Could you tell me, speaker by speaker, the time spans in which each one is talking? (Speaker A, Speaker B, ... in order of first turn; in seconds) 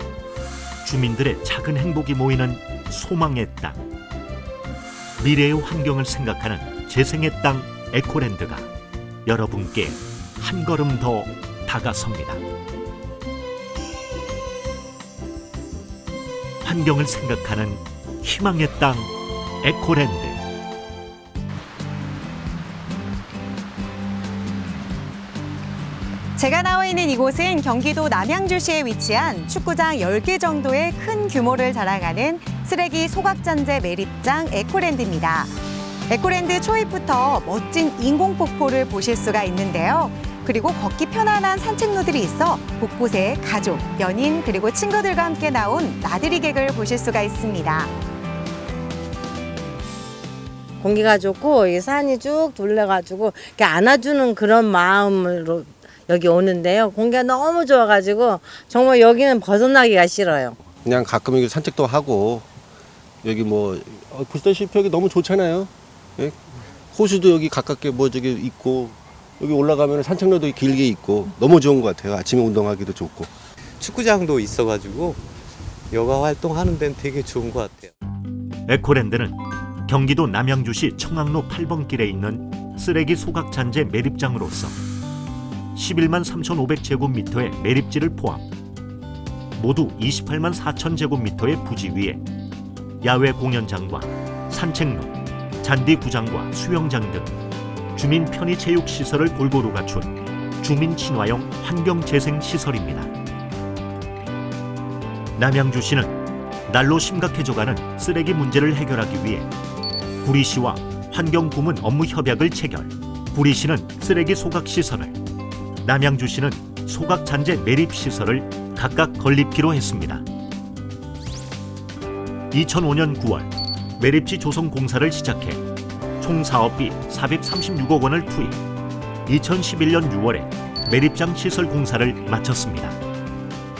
Speaker A: 0.8-3.8, 5.2-8.7, 9.2-12.4, 16.6-19.1, 19.6-20.4, 78.7-84.8, 85.7-88.4, 89.6-92.2, 93.0-97.3, 97.9-103.1, 105.4-109.5, 110.2-115.1, 115.8-120.2, 122.5-125.6, 126.2-128.6, 129.2-133.0
Speaker B: 26.4-35.5, 36.1-47.9
Speaker C: 50.8-60.6
Speaker D: 60.8-62.5, 63.2-73.3
Speaker E: 73.8-75.2, 75.9-77.9